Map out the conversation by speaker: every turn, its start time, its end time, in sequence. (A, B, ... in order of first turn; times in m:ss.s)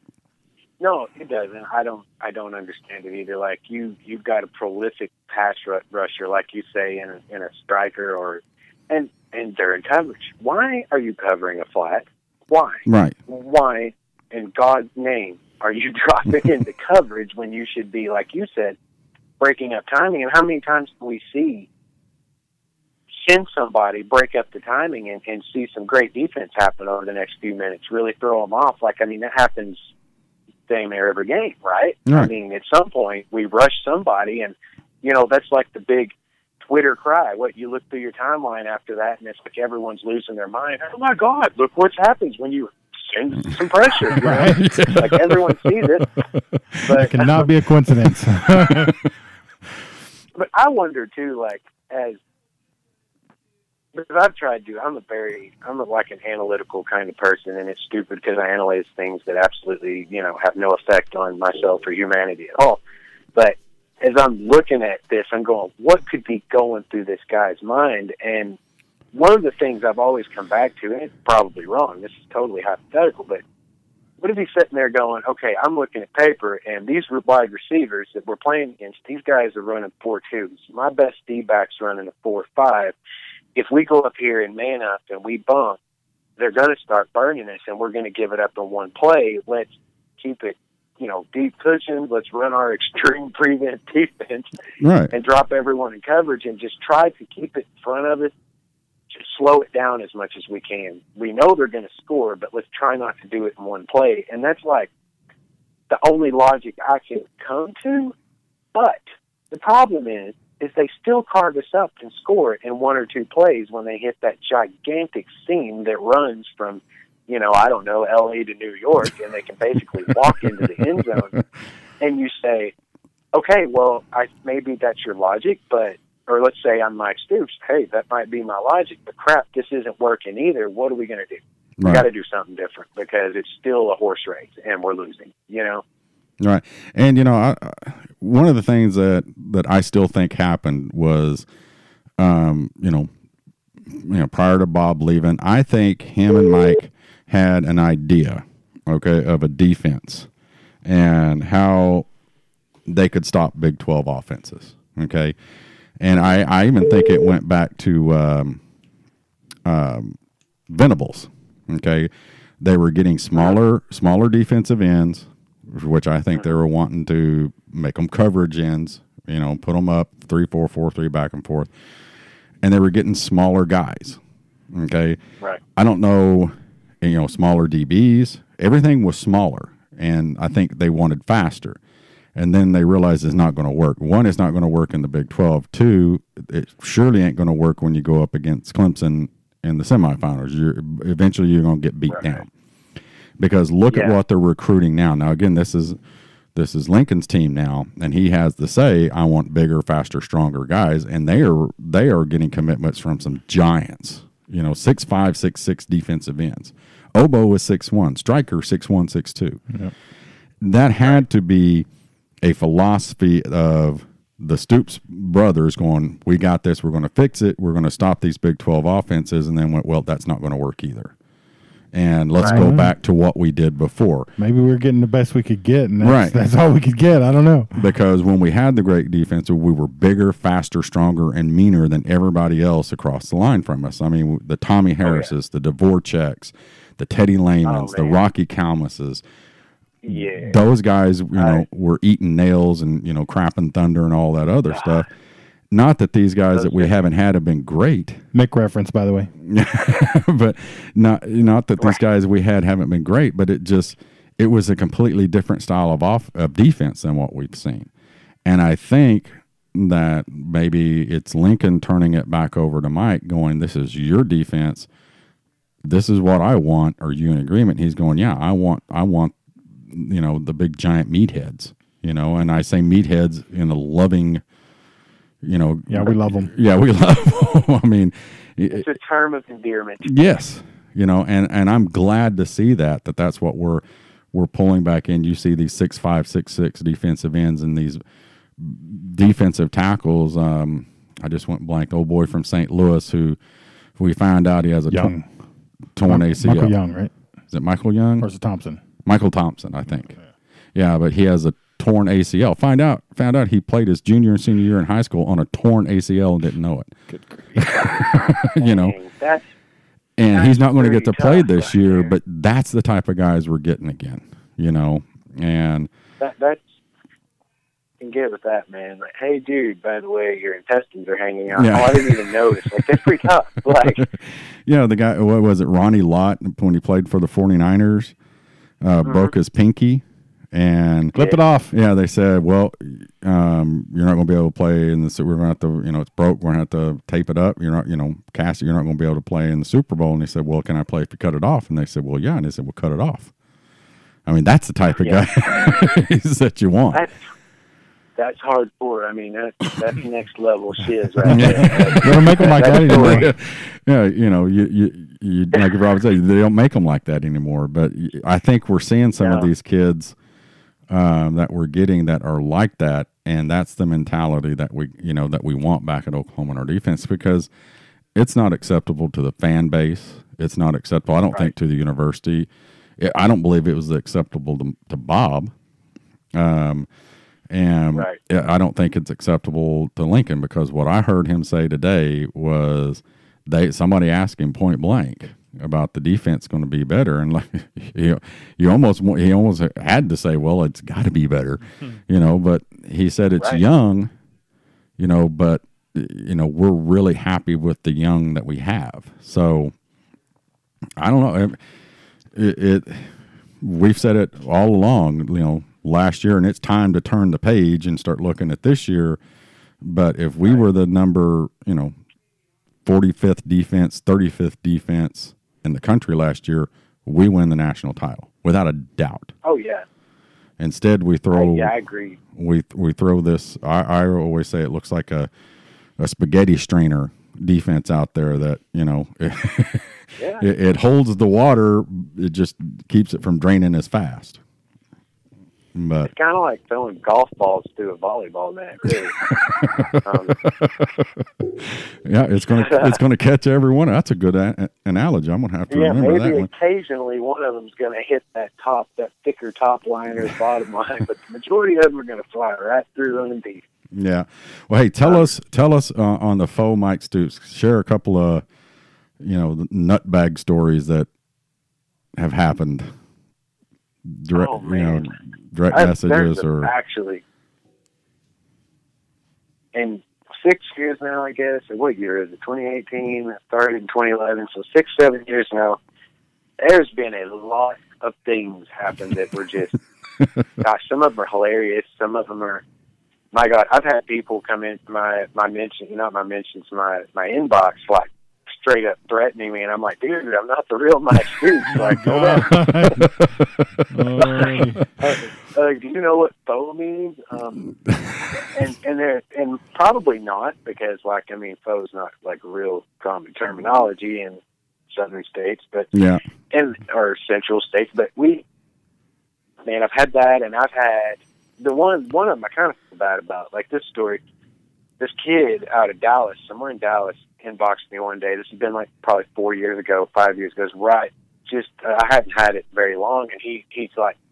0:00.8-0:18.8 A
0:12.8-0:13.2 B
0:19.4-0:21.7 A
0:23.2-0:29.8 A
0:30.7-0:36.1 A
0:36.6-0:46.1 A
0:44.2-0:45.0 C
0:44.6-0:45.5 B
0:46.2-0:47.0 B
0:46.8-0:47.5 A
0:46.9-0:48.9 C
0:48.0-0:49.1 B
0:50.3-0:52.2 A
0:53.9-1:02.8 A
1:03.3-1:08.6 A
1:09.1-1:13.4 A
1:14.2-1:22.9 A
1:23.5-1:25.8 A
1:26.4-1:34.5 A
1:34.8-1:35.1 B
1:35.1-1:38.3 A
1:39.1-1:44.9 A
1:45.9-1:48.1 A
1:48.7-1:49.0 A
1:49.5-2:01.4 A
2:02.0-2:02.7 A
2:03.3-2:15.8 A
2:11.8-2:12.0 B
2:16.4-2:21.4 B
2:22.2-2:23.1 B
2:23.9-2:30.3 B
2:30.8-2:32.1 B
2:32.9-2:35.4 B
2:36.0-2:38.6 B
2:39.6-2:40.2 B
2:40.7-2:51.7 B
2:52.6-2:54.2 B
2:54.7-2:55.2 B
2:55.8-3:01.8 B
3:02.4-3:12.5 B
3:12.1-3:12.4 A
3:13.4-3:16.0 B
3:13.9-3:14.2 A
3:16.5-3:29.6 B
3:30.6-3:31.9 B
3:32.4-3:41.1 B
3:41.9-3:44.3 B
3:42.5-3:42.9 C
3:44.4-3:47.8 C
3:46.0-3:46.4 B
3:47.8-3:59.2 B
3:55.0-3:55.3 A
3:57.6-3:58.2 A
4:00.0-4:00.6 A
4:00.1-4:05.1 B
4:01.3-4:01.6 A
4:04.7-4:05.0 A
4:05.7-4:08.2 B
4:06.5-4:06.9 A
4:08.3-4:09.3 C
4:09.4-4:17.9 B
4:18.4-4:24.9 B
4:25.8-4:29.4 B
4:29.9-4:34.4 B
4:35.4-4:38.9 B
4:35.9-4:36.5 C
4:38.7-4:40.1 A
4:40.0-4:48.0 B
4:48.6-4:53.4 B
4:54.0-4:55.1 B
4:54.9-4:55.2 C
4:56.0-4:56.8 B
4:56.0-4:57.1 C
4:57.5-4:58.2 B
4:58.2-4:58.8 C
4:59.0-5:00.2 B
5:00.7-5:06.9 B
5:07.5-5:09.0 B
5:07.6-5:09.4 A
5:10.2-5:15.9 B
5:10.3-5:12.1 A
5:16.2-5:16.6 A
5:18.0-5:24.1 A
5:21.5-5:22.2 B
5:23.8-5:28.1 B
5:28.8-5:31.2 B
5:29.0-5:29.3 A
5:31.1-5:31.7 C
5:31.7-5:43.3 B
5:44.2-5:47.0 B
5:48.2-5:53.3 A
5:51.3-5:53.3 C
5:51.3-6:00.2 B
5:59.2-5:59.5 A
6:00.9-6:07.5 B
6:08.1-6:15.5 B
6:16.3-6:16.9 B
6:17.5-6:34.1 B
6:35.0-6:39.7 B
6:41.0-6:41.6 B
6:42.3-6:49.2 B
6:49.8-6:51.9 B
6:52.8-6:59.3 B
6:59.4-6:59.8 A
7:00.6-7:01.7 B
7:01.3-7:02.2 A
7:02.3-7:05.3 B
7:06.0-7:09.9 B
7:10.2-7:10.5 A
7:10.4-7:14.4 B
7:15.7-7:16.1 B
7:16.0-7:19.2 A
7:19.5-7:26.5 B
7:20.0-7:20.4 A
7:22.6-7:23.0 A
7:25.7-7:33.6 A
7:33.9-7:38.4 B
7:39.2-7:41.1 B
7:42.1-7:42.9 B
7:44.1-7:46.7 B
7:44.3-7:45.1 A
7:45.7-7:47.2 A
7:49.7-7:55.8 A
7:56.6-7:59.7 A
8:00.6-8:02.6 A
8:03.3-8:13.1 A
8:11.7-8:13.3 C
8:13.0-8:13.8 B
8:13.9-8:14.8 C
8:14.2-8:17.7 A
8:18.5-8:24.4 A
8:24.9-8:25.9 A
8:25.9-8:26.2 B
8:26.5-8:28.4 A
8:29.6-8:34.2 A
8:35.0-8:44.1 A